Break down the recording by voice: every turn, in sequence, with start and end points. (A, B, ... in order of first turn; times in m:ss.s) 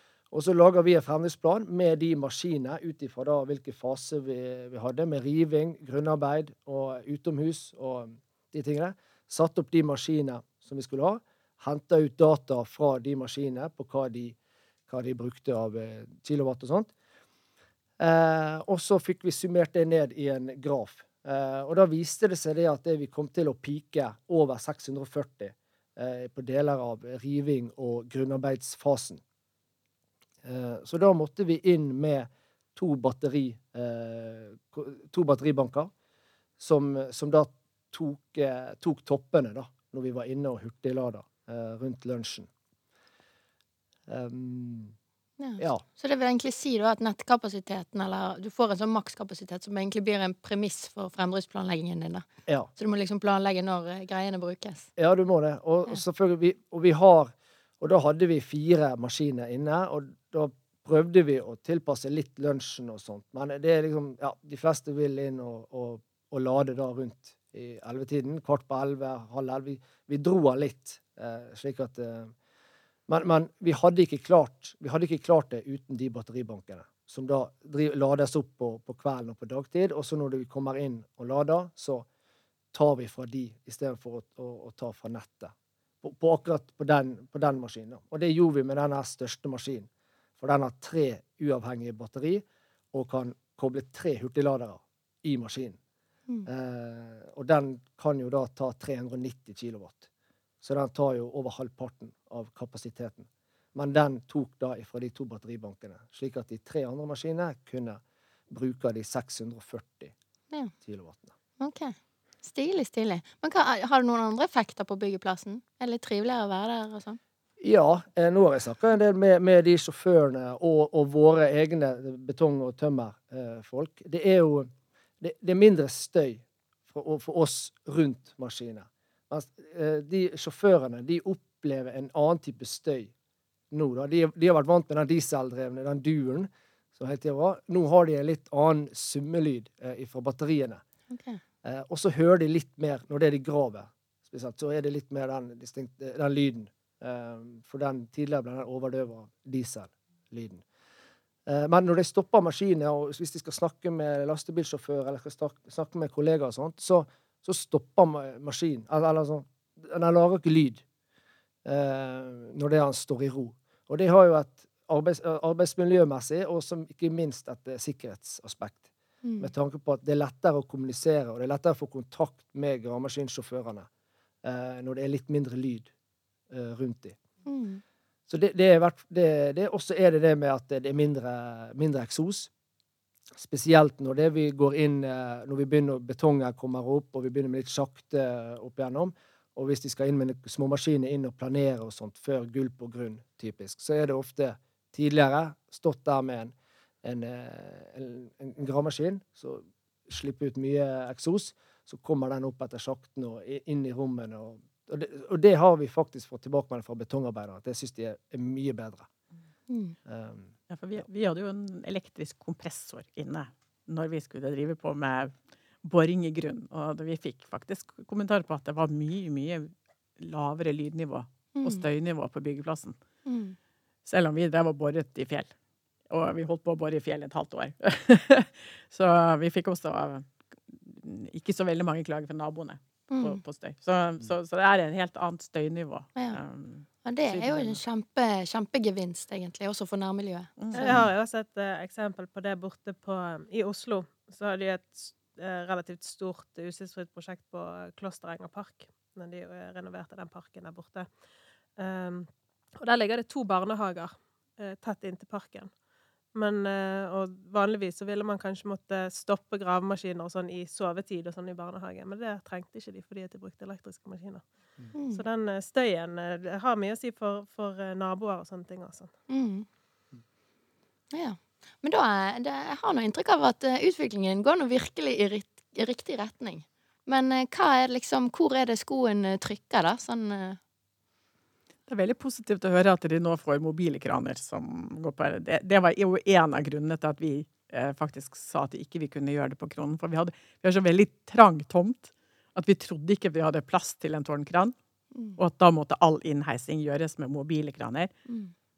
0:00.3-0:14.4 A
0:14.9-0:16.9 A
0:18.0-0:29.2 A
0:30.4-0:35.9 A
0:36.6-0:42.5 A
0:44.1-0:45.0 A
0:45.4-0:54.9 B
0:45.6-0:45.8 A
0:55.0-1:12.3 A
1:13.1-1:22.1 A
1:22.7-1:29.9 A
1:30.4-1:35.8 A
1:36.5-1:40.1 A
1:40.6-1:50.1 A
1:50.8-1:51.3 A
1:51.6-1:57.2 B
1:57.6-2:04.7 A
2:05.2-2:13.1 A
2:13.7-2:20.8 A
2:21.1-2:21.4 B
2:21.6-2:30.6 A
2:31.5-2:40.8 A
2:41.6-2:48.9 A
2:49.2-2:49.5 B
2:49.4-2:53.9 A
2:54.4-2:55.9 A
2:56.5-2:57.2 A
2:57.5-2:57.8 B
2:58.3-3:02.5 A
3:03.4-3:29.1 A
3:29.7-3:30.0 B
3:30.1-3:30.5 A
3:30.7-3:43.0 C
3:41.6-3:41.8 B
3:43.3-3:43.6 B
3:44.1-3:45.5 C
3:46.1-3:57.8 C
3:53.1-3:53.4 B
3:57.0-4:01.0 B
4:00.6-4:01.1 C
4:00.8-4:11.1 D
4:11.8-4:12.3 D
4:12.8-4:15.7 D
4:16.3-4:24.4 D
4:25.0-4:25.2 B
4:25.1-4:29.1 D
4:29.3-4:29.7 B
4:31.1-4:40.6 B
4:41.9-4:54.8 C
4:55.4-4:58.1 C
4:58.3-4:58.5 B